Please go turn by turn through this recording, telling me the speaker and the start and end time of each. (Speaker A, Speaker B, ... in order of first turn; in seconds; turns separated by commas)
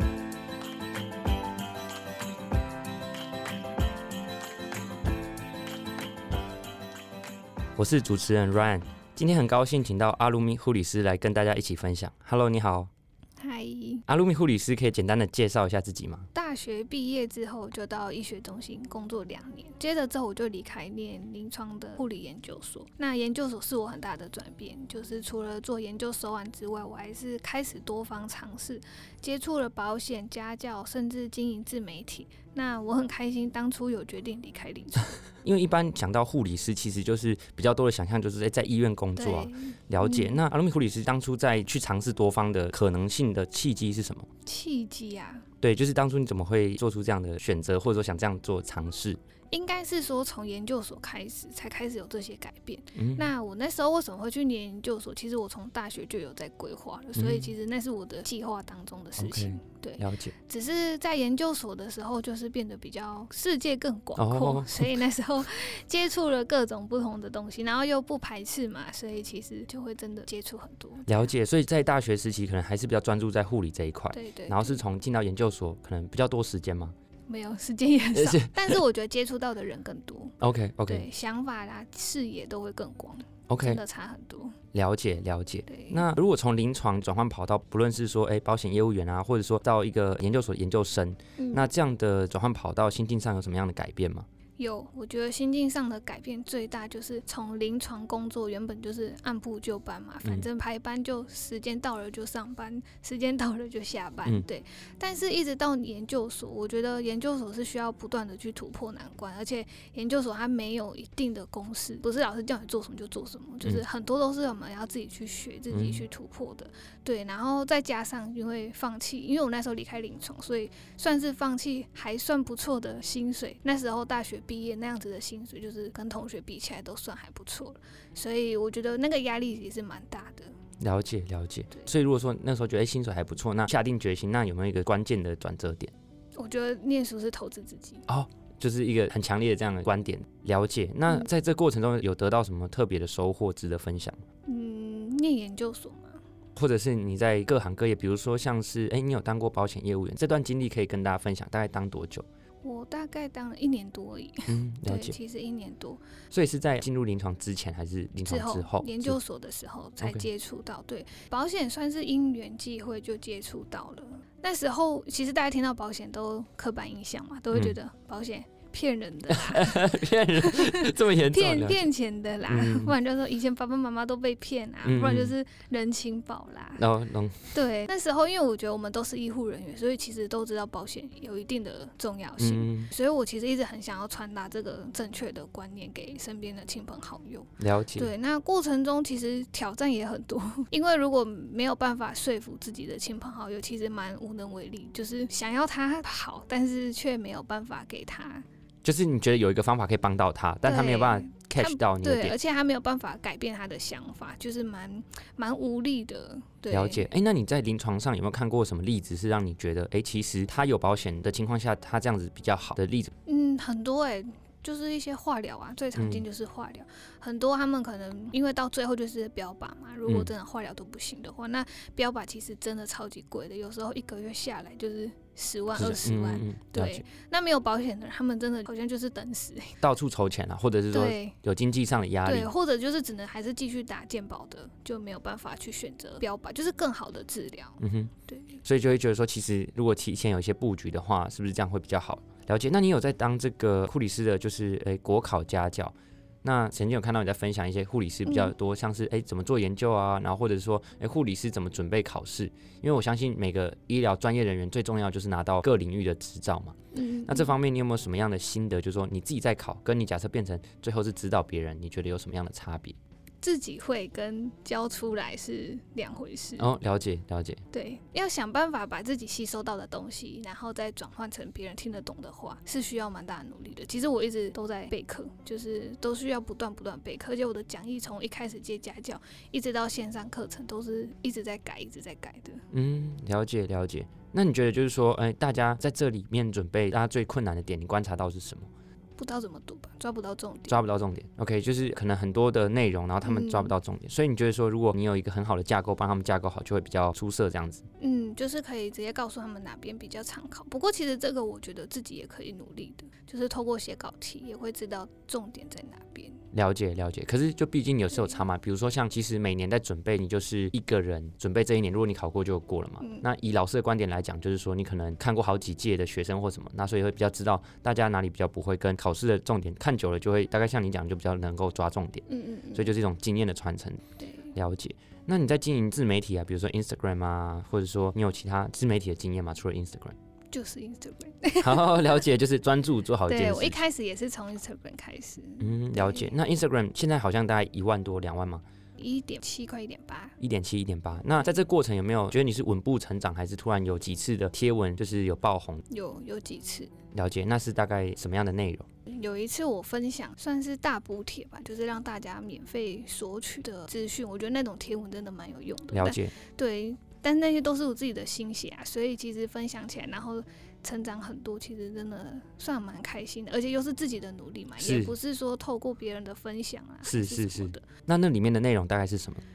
Speaker A: 7.8-12.9, Speaker B: 13.4-14.1, Speaker A: 14.1-16.3, Speaker B: 16.3-35.1, Speaker A: 35.4-44.3, Speaker B: 39.1-40.4, Speaker B: 44.5-45.5, Speaker A: 45.6-49.2, Speaker B: 49.5-71.3, Speaker A: 52.9-53.3, Speaker A: 57.1-57.5, Speaker A: 59.2-60.3, Speaker A: 64.2-65.0, Speaker A: 71.0-76.9, Speaker B: 74.1-74.8, Speaker B: 77.3-84.5, Speaker A: 78.1-78.8, Speaker A: 80.4-81.1, Speaker A: 83.5-83.8, Speaker A: 84.7-94.2, Speaker B: 85.7-86.0, Speaker B: 91.4-91.7, Speaker B: 94.6-130.6, Speaker A: 115.7-116.0, Speaker A: 130.8-135.9, Speaker B: 136.3-138.0, Speaker A: 138.1-144.2, Speaker B: 144.4-146.2, Speaker A: 146.6-152.2, Speaker B: 152.6-156.0, Speaker A: 154.5-155.2, Speaker A: 156.3-159.2, Speaker B: 158.3-176.8, Speaker A: 160.0-160.2, Speaker A: 169.3-171.9, Speaker A: 172.5-172.9, Speaker A: 174.8-175.3, Speaker A: 176.8-177.5, Speaker B: 177.5-198.4, Speaker A: 182.4-182.9, Speaker A: 187.6-188.1, Speaker A: 198.8-202.4, Speaker B: 200.6-207.1, Speaker A: 206.7-213.1, Speaker B: 213.2-229.8, Speaker A: 215.9-216.2, Speaker A: 225.8-227.0, Speaker A: 229.8-232.5, Speaker B: 230.9-231.3, Speaker B: 232.2-238.6, Speaker A: 237.8-238.1, Speaker A: 238.6-263.0, Speaker B: 248.2-248.5, Speaker B: 256.9-257.5, Speaker B: 263.4-266.7, Speaker A: 266.6-267.6, Speaker B: 267.7-282.6, Speaker A: 282.7-288.7, Speaker B: 289.2-290.8, Speaker A: 290.7-297.9, Speaker B: 293.2-293.7, Speaker B: 298.0-306.4, Speaker A: 306.5-330.1, Speaker B: 322.3-322.9, Speaker B: 324.2-324.5, Speaker B: 330.5-332.1, Speaker A: 331.6-333.8, Speaker B: 333.3-336.3, Speaker A: 335.6-338.6, Speaker B: 339.0-340.4, Speaker A: 340.4-345.8, Speaker B: 345.9-346.9, Speaker A: 347.1-348.9, Speaker B: 349.1-367.8, Speaker A: 355.9-356.3, Speaker A: 364.8-365.1, Speaker A: 367.0-369.4